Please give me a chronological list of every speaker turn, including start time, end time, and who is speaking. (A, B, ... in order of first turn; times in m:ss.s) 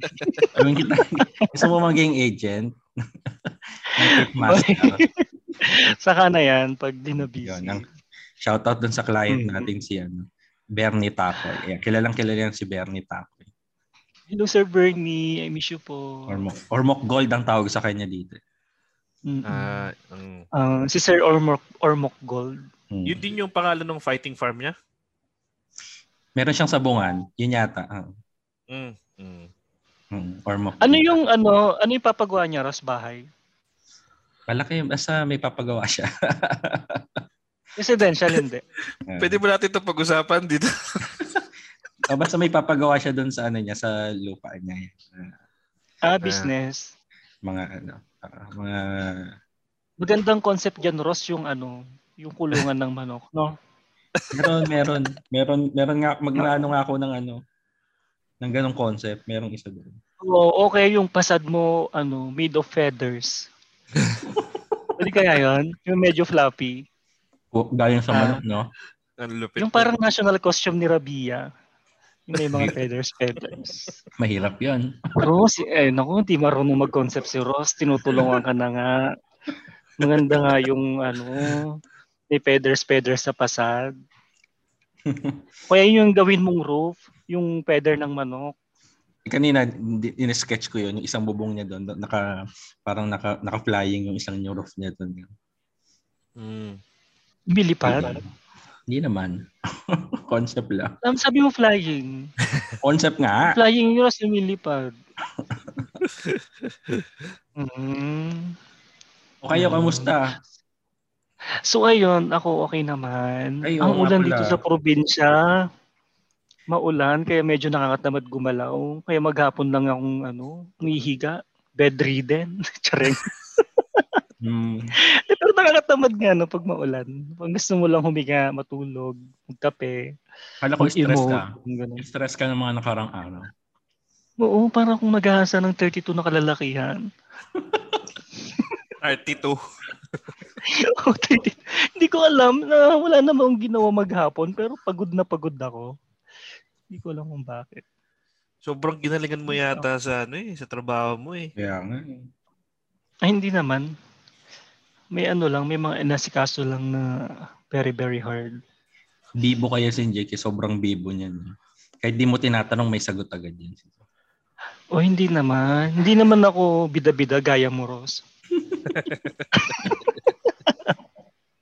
0:00.1-0:00.6 A
0:00.5-0:02.7 B
0:01.1-0:01.7 A
0:03.4-0:05.0 B
0:03.9-0:05.1 A
0:05.6-0:07.8 A
0:07.3-0:07.8 B
0:08.4-0:13.5 B
0:09.3-0:09.7 A
0:14.3-0:16.3 A
0:16.3-0:18.4 B
0:19.3-0:19.9 A
0:19.5-0:20.4 C
0:20.6-0:22.6 A
0:22.9-0:23.3 B
0:23.0-0:24.7 C
0:26.4-0:28.1 B
0:28.7-0:29.5 C
0:30.1-0:31.0 B
0:30.8-0:33.2 A
0:34.5-0:37.2 B
0:37.8-0:38.6 A
0:39.1-0:39.4 B
0:39.2-0:41.0 C
0:42.1-0:45.3 B
0:46.0-0:46.9 A
0:46.2-0:46.5 C
0:47.4-0:49.3 B
0:50.0-0:53.5 A
0:54.2-0:54.4 C
0:54.3-0:57.4 B
0:56.4-0:56.7 A
0:58.4-1:00.0 B
1:00.2-1:03.5 A
1:05.0-1:06.8 A
1:07.5-1:08.7 B
1:08.1-1:08.4 A
1:09.2-1:09.9 C
1:09.6-1:11.5 A
1:12.3-1:13.9 A
1:14.2-1:14.9 B
1:15.2-1:19.1 A
1:20.0-1:21.8 A
1:22.3-1:23.9 A
1:25.0-1:25.4 B
1:25.7-1:28.5 A
1:29.2-1:35.3 B
1:36.4-1:36.8 C
1:37.5-1:38.2 A
1:37.8-1:38.3 B
1:38.9-1:41.0 B
1:41.0-1:42.3 A
1:42.8-1:43.6 B
1:43.4-1:44.9 A
1:45.3-1:46.0 B
1:46.2-1:47.0 C
1:47.6-1:48.6 A
1:49.4-1:50.4 B
1:49.5-1:50.1 A
1:51.7-1:55.4 A
1:53.6-1:54.6 B
1:56.7-2:04.0 A
2:04.4-2:04.9 B
2:05.1-2:10.0 A
2:10.6-2:13.5 B
2:10.8-2:12.0 A
2:14.4-2:17.0 A
2:17.6-2:18.0 B
2:19.0-2:19.6 C
2:20.6-2:25.9 A
2:26.9-2:27.8 A
2:28.6-2:31.5 C
2:29.5-2:29.8 A
2:31.6-2:32.3 B
2:33.2-2:33.9 A
2:35.1-2:37.1 A
2:37.7-2:38.6 A
2:39.4-2:43.9 B
2:44.9-2:48.2 A
2:48.6-2:48.8 B
2:48.9-2:49.5 C
2:49.5-2:50.9 A